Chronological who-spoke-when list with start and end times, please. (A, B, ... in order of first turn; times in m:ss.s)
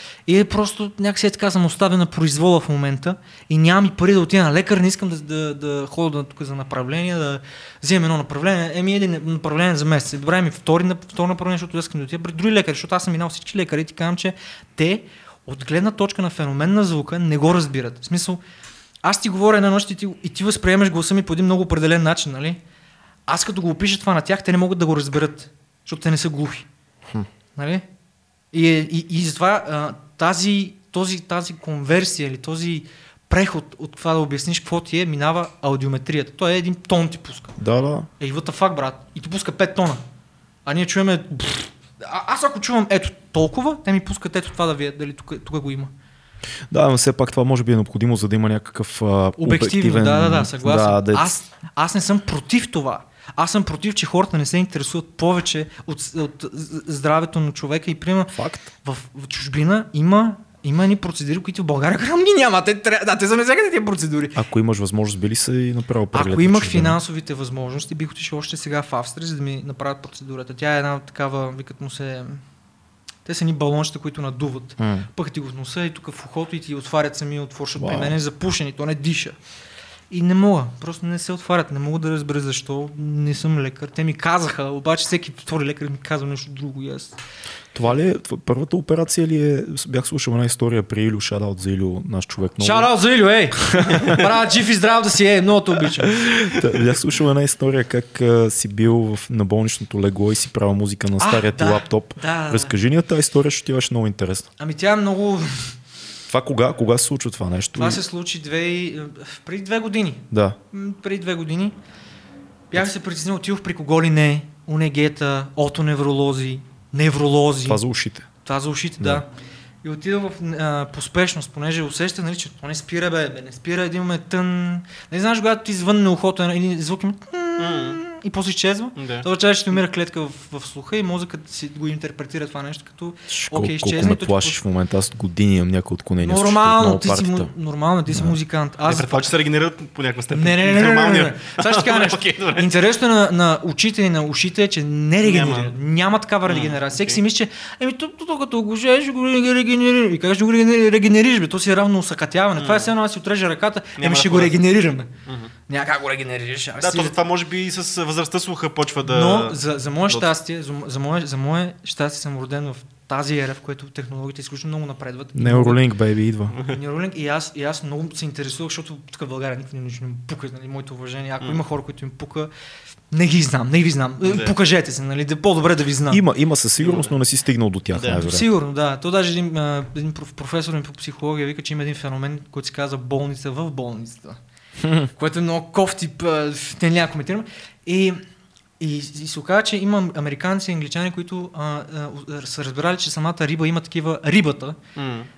0:00.3-0:18.4 A
0:19.0-0:22.6 A
0:23.3-0:26.7 A
0:27.6-0:27.9 A
0:28.5-0:37.5 A
0:37.6-0:38.1 B
0:38.2-0:40.0 A
0:40.7-0:45.9 A
0:46.7-0:51.3 B
0:49.4-1:04.4 A
0:58.4-0:58.7 B
1:04.4-1:07.0 B
1:06.1-1:12.4 A
1:13.2-1:19.4 A
1:14.8-1:15.1 B
1:17.8-1:18.2 B
1:20.1-1:27.2 A
1:27.7-1:32.9 B
1:32.6-1:36.2 A
1:33.6-1:34.1 B
1:36.2-1:44.5 B
1:41.2-1:42.8 A
1:44.6-1:45.7 A
1:46.3-1:48.0 B
1:47.8-1:51.8 A
1:50.3-1:50.6 B
1:52.7-1:57.8 A
1:57.7-1:58.3 B
1:58.4-1:59.3 A
1:59.8-2:14.6 A
2:07.6-2:08.0 C
2:09.0-2:09.3 C
2:13.3-2:17.5 B
2:16.2-2:19.2 A
2:18.8-2:22.7 C
2:20.3-2:35.1 A
2:25.2-2:25.8 C
2:26.5-2:27.2 C
2:32.6-2:32.9 C
2:34.0-2:34.6 C
2:35.3-2:35.5 C
2:35.7-2:37.1 A
2:36.8-2:40.3 C
2:39.1-2:45.8 A
2:45.4-2:46.6 B
2:46.6-2:52.5 A
2:53.1-2:56.2 A
2:54.2-2:54.6 C
2:56.1-2:58.5 B
2:56.8-2:57.1 C
2:58.0-2:58.2 C
2:58.1-3:04.4 A
3:04.8-3:05.1 B
3:05.2-3:08.2 A
3:08.8-3:14.8 A
3:15.0-3:15.3 C